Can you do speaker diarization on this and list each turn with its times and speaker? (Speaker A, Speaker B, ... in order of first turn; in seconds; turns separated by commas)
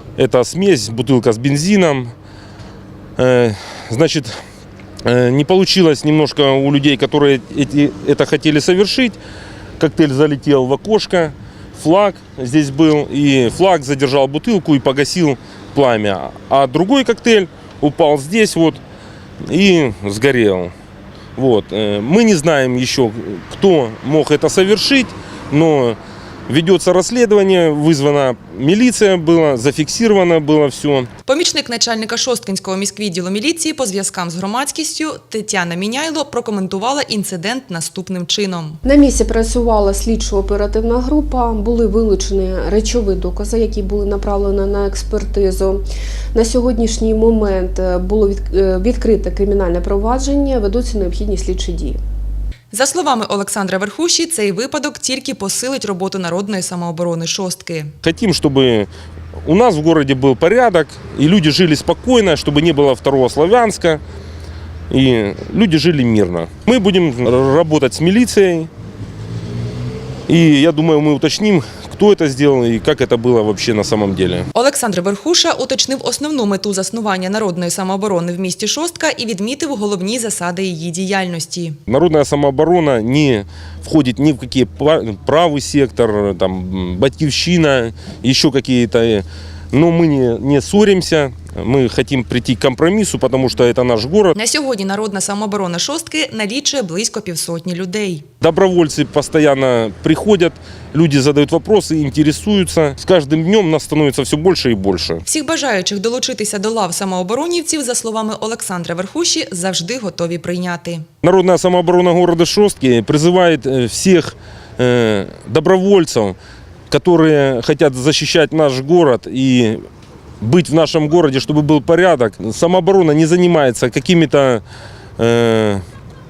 Speaker A: 0.2-2.1, Speaker A: 3.2-4.4, Speaker A: 5.0-9.2, Speaker A: 9.8-18.8, Speaker A: 19.5-20.7, Speaker A: 21.4-31.1, Speaker B: 31.3-38.8, Speaker C: 38.9-45.8, Speaker C: 46.3-52.0, Speaker B: 52.7-57.9, Speaker A: 58.0-58.9, Speaker A: 59.4-64.0, Speaker A: 64.9-68.7, Speaker A: 70.3-74.5, Speaker B: 74.5-81.8, Speaker A: 81.9-94.3, Speaker B: 94.3-98.2, Speaker A: 98.4-105.2, Speaker B: 105.2-111.0, Speaker A: 111.2-116.4, Speaker A: 116.9-119.8, Speaker A: 120.4-124.6, Speaker A: 125.2-125.8